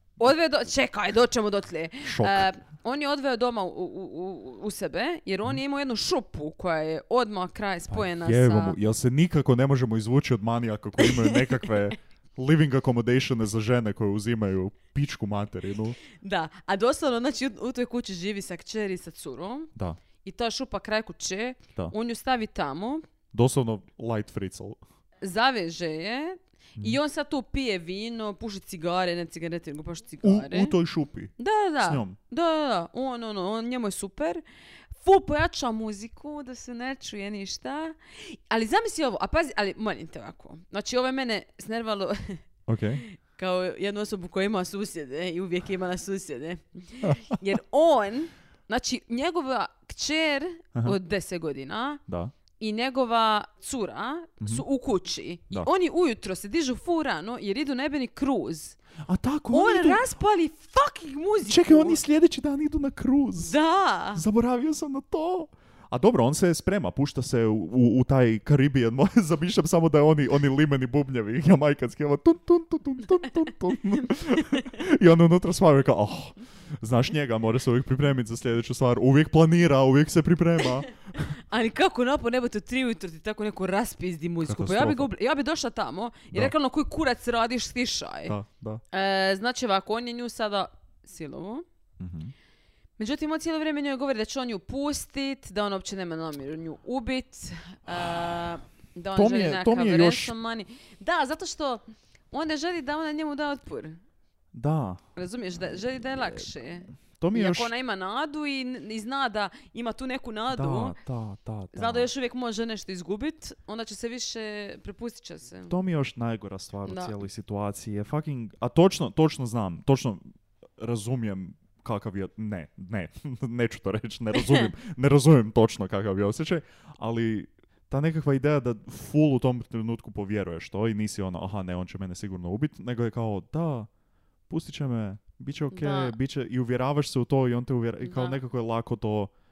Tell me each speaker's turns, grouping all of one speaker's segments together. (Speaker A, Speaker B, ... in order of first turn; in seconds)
Speaker A: 0.2-8.8, 11.0-11.7, 16.2-23.0, 25.2-30.7, 31.4-34.4, 35.0-42.4, 43.0-52.0, 52.6-58.8, 59.5-62.0, 63.4-64.2, 81.4-88.4, 88.9-91.7, 93.0-104.0, 105.2-111.0, 111.7-115.8, 116.8-117.2, 124.3-124.7, 135.7-136.2, 138.0-138.4
Speaker B: 2.0-2.5, 7.9-16.0, 23.3-24.8, 30.2-32.2, 42.7-43.0, 52.1-52.3, 59.0-60.0, 61.5-63.6, 64.2-80.9, 84.4-85.1, 88.3-88.8, 92.0-92.3, 99.1-100.3, 104.5-105.0, 106.1-106.5, 107.2-107.7, 110.5-112.1, 115.7-120.2, 120.8-133.9, 134.5-139.3